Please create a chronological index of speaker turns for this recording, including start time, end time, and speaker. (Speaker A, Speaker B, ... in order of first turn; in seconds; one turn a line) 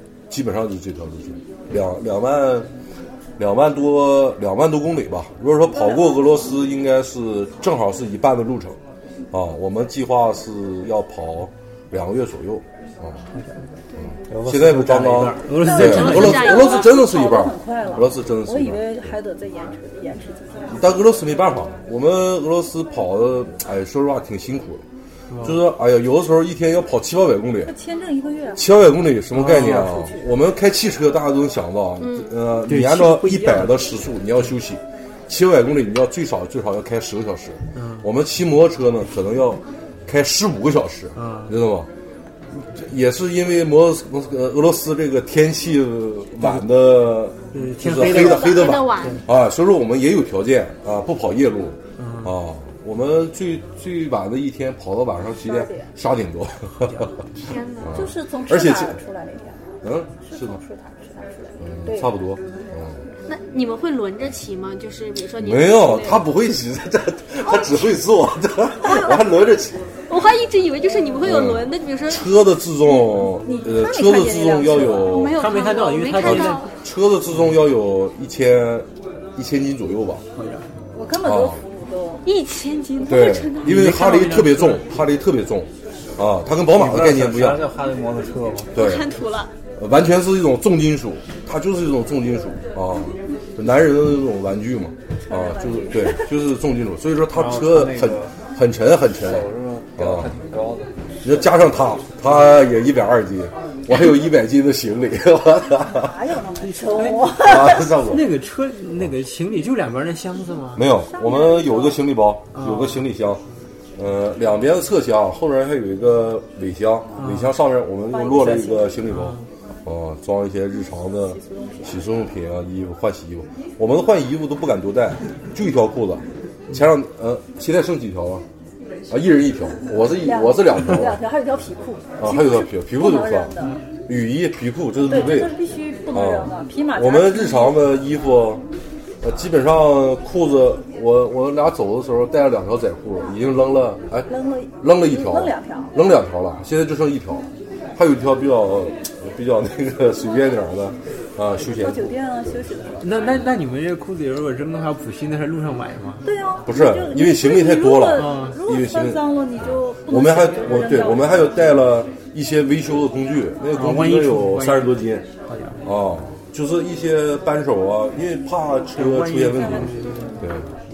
Speaker A: 0.3-2.7
Speaker A: 3.4-8.8
Speaker B: 5.7-6.2
Speaker A: 9.3-13.2
Speaker C: 13.3-13.6
Speaker D: 13.9-14.2
Speaker E: 14.3-15.6
Speaker A: 14.4-19.1
Speaker C: 15.4-16.4
Speaker B: 15.6-20.7
Speaker D: 15.6-17.0
Speaker A: 20.7-24.8
Speaker C: 25.3-25.6
Speaker A: 25.4-27.7
Speaker B: 27.6-28.7
Speaker A: 28.6-41.9
Speaker C: 29.3-29.9
Speaker B: 29.7-30.3
Speaker D: 32.0-32.3
Speaker C: 32.7-33.8
Speaker C: 37.7-38.1
Speaker C: 41.1-41.6
Speaker A: 42.5-57.2
Speaker C: 47.5-49.2
Speaker D: 47.9-49.2
Speaker C: 52.0-52.3
Speaker B: 55.4-55.9
Speaker C: 56.8-57.1
Speaker D: 57.4-58.0
Speaker A: 57.8-59.0
Speaker B: 57.9-59.6
Speaker A: 59.8-60.6
Speaker B: 60.2-62.1
Speaker A: 61.6-63.0
Speaker D: 63.3-66.3
Speaker A: 65.4-69.8
Speaker D: 68.8-69.2
Speaker D: 70.1-72.3
Speaker A: 71.2-75.4
Speaker B: 73.4-75.4
Speaker D: 75.0-76.7
Speaker C: 75.3-76.6
Speaker A: 76.2-80.2
Speaker C: 80.3-80.7
Speaker B: 80.9-82.2
Speaker A: 81.1-81.6
Speaker D: 82.2-84.2
Speaker A: 83.0-87.7
Speaker C: 83.6-85.0
Speaker E: 86.7-88.8
Speaker A: 88.7-89.1
Speaker D: 88.7-89.5
Speaker A: 89.8-100.3
Speaker B: 95.3-96.3
Speaker E: 97.3-98.4
Speaker E: 99.2-101.3
Speaker A: 101.2-106.2
Speaker B: 105.8-108.0
Speaker C: 106.9-110.9
Speaker A: 107.3-108.3
Speaker A: 110.8-113.4
Speaker B: 111.0-112.0
Speaker C: 112.5-113.0
Speaker A: 114.0-128.4
Speaker C: 117.1-117.5
Speaker B: 118.1-119.1
Speaker C: 119.0-119.5
Speaker B: 121.2-122.1
Speaker A: 129.1-131.2
Speaker B: 130.1-133.8
Speaker A: 132.2-133.5
Speaker A: 134.1-135.5
Speaker B: 135.1-137.8
Speaker A: 136.1-138.6
Speaker A: 139.2-152.6
Speaker B: 144.3-145.9
Speaker B: 151.6-153.1
Speaker C: 153.0-156.2
Speaker B: 156.2-161.8
Speaker A: 156.6-165.2
Speaker C: 158.2-158.6
Speaker C: 163.7-164.9
Speaker C: 165.5-165.8
Speaker A: 165.8-170.7
Speaker C: 168.9-170.4